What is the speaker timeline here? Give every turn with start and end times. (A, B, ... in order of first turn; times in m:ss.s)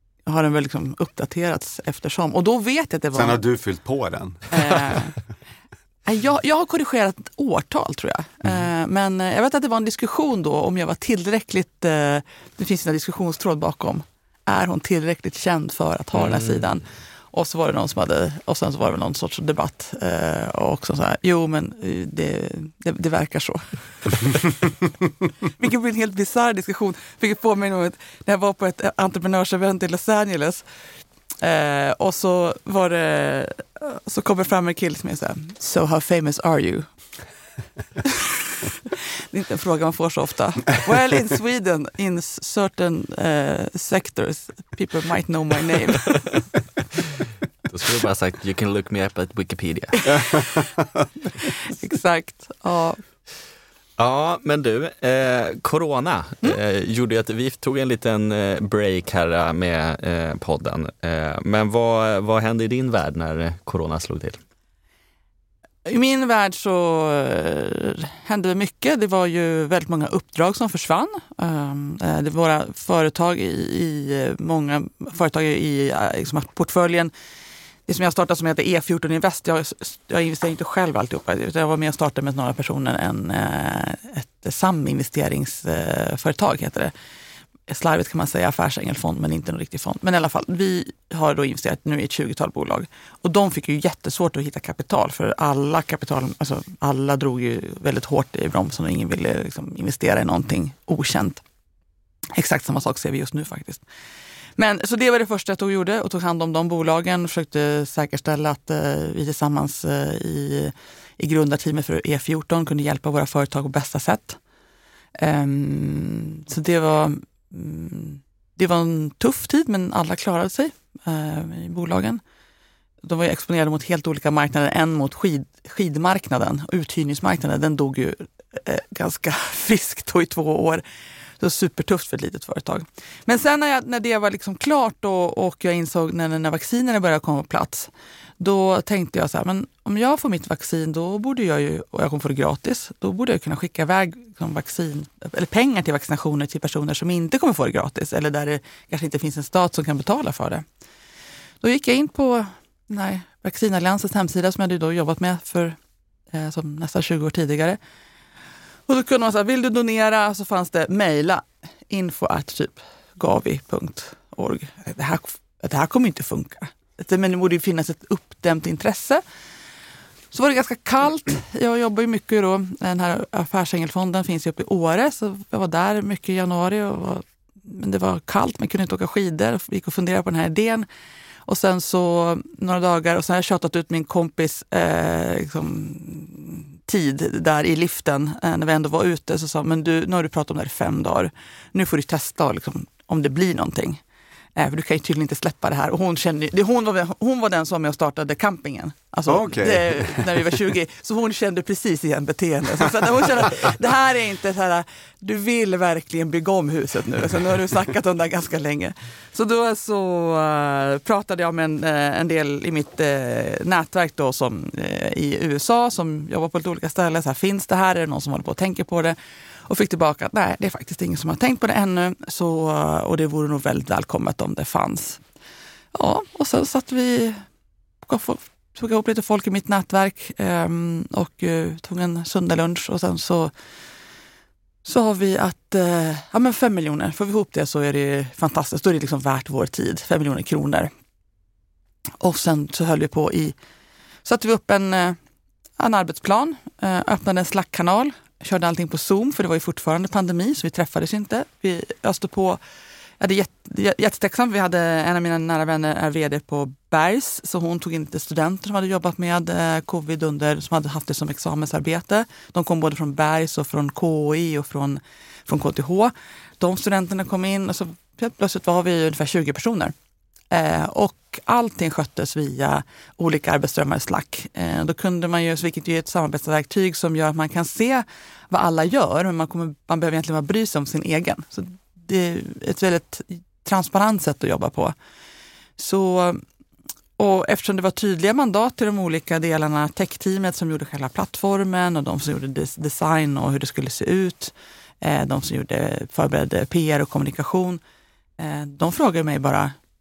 0:00.2-0:03.4 A
0:03.1-0:05.0 B
0:04.5-0:05.2 A
0:06.0-0:24.7 A
0:16.2-0:16.6 C
0:25.4-0:30.6 A
0:31.4-0:36.9 A
0:38.0-0:46.3 A
0:47.7-0:50.3 C
0:50.3-0:50.8 B
0:51.4-0:53.0 A
0:54.0-1:04.4 C
1:05.8-1:17.1 A
1:17.9-1:26.9 A
1:27.7-1:41.4 A
1:42.3-1:43.8 A
1:44.6-1:54.4 A
1:55.2-2:02.2 A
2:03.0-2:10.8 A
2:11.4-2:30.6 A
2:31.6-2:35.8 A
2:36.3-2:37.8 A
2:38.9-2:49.2 A
2:50.3-3:00.9 A
3:01.4-3:14.0 A
3:14.6-3:45.2 A
3:19.3-3:20.4 B
3:45.9-3:47.4 A
3:48.0-3:53.5 A
3:54.8-4:00.9 A
4:02.2-4:03.6 A
4:04.2-4:05.2 A
4:05.8-4:12.6 A
4:13.2-4:29.9 A
4:30.5-4:44.9 A
4:45.8-4:46.4 A
4:47.2-4:57.8 A
4:58.4-4:59.7 A